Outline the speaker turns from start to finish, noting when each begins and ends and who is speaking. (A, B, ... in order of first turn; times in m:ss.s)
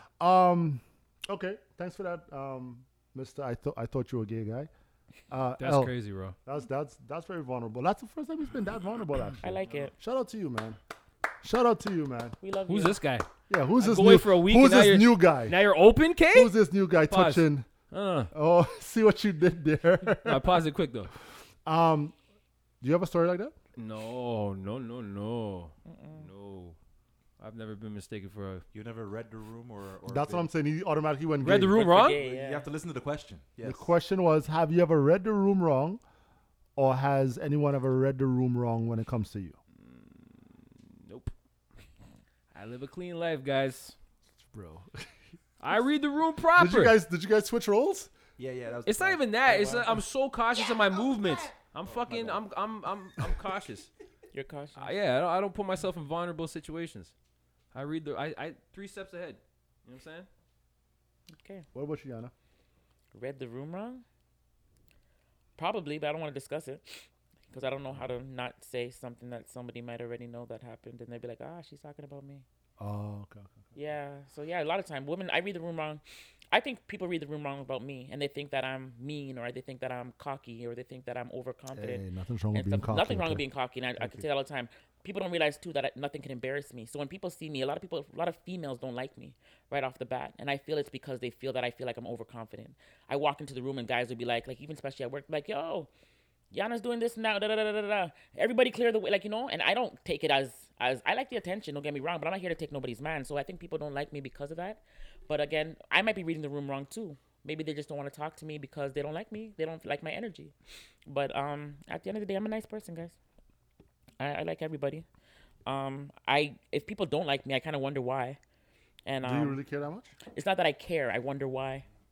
0:00.2-0:04.7 A
0:05.3-0:10.8 A
0:05.6-0:06.4 B
0:09.4-0:09.9 C
0:11.4-0:12.4 A
0:12.4-0:13.0 C
0:12.7-0:13.3 B
0:13.5-0:15.6 A
0:13.8-0:18.3 B
0:16.3-0:17.7 A
0:18.3-0:20.6 A
0:20.2-0:21.1 B
0:21.6-0:22.1 A
0:22.8-0:23.6 A
0:23.8-0:26.8 B
0:25.8-0:26.3 C
0:27.4-0:28.6 B
0:28.7-0:30.5 D
0:30.1-0:31.9 A
0:31.4-0:32.2 B
0:31.7-0:32.7 C
0:31.9-0:33.9 D
0:33.6-0:36.0 A
0:36.8-0:39.6 A
0:39.8-0:41.3 B
0:42.5-0:43.9 B
0:44.4-0:45.1 A
0:45.6-0:47.0 B
0:46.5-0:48.1 A
0:48.4-0:49.9 D
0:48.8-0:53.9 B
0:51.8-0:52.4 D
0:54.3-0:54.9 C
0:54.8-0:57.1 B
0:57.7-1:00.3 B
1:01.4-1:01.6 C
1:01.7-1:02.3 A
1:03.1-1:04.0 C
1:05.6-1:06.8 C
1:07.5-1:12.4 C
1:12.8-1:13.6 A
1:13.7-1:16.0 C
1:16.5-1:35.9 C
1:21.7-1:23.4 A
1:24.0-1:24.2 A
1:36.5-1:50.5 C
1:51.0-1:53.1 C
1:54.2-1:55.0 C
1:55.6-1:58.4 C
1:59.0-1:59.6 C
1:59.2-2:00.1 A
2:00.3-2:01.8 C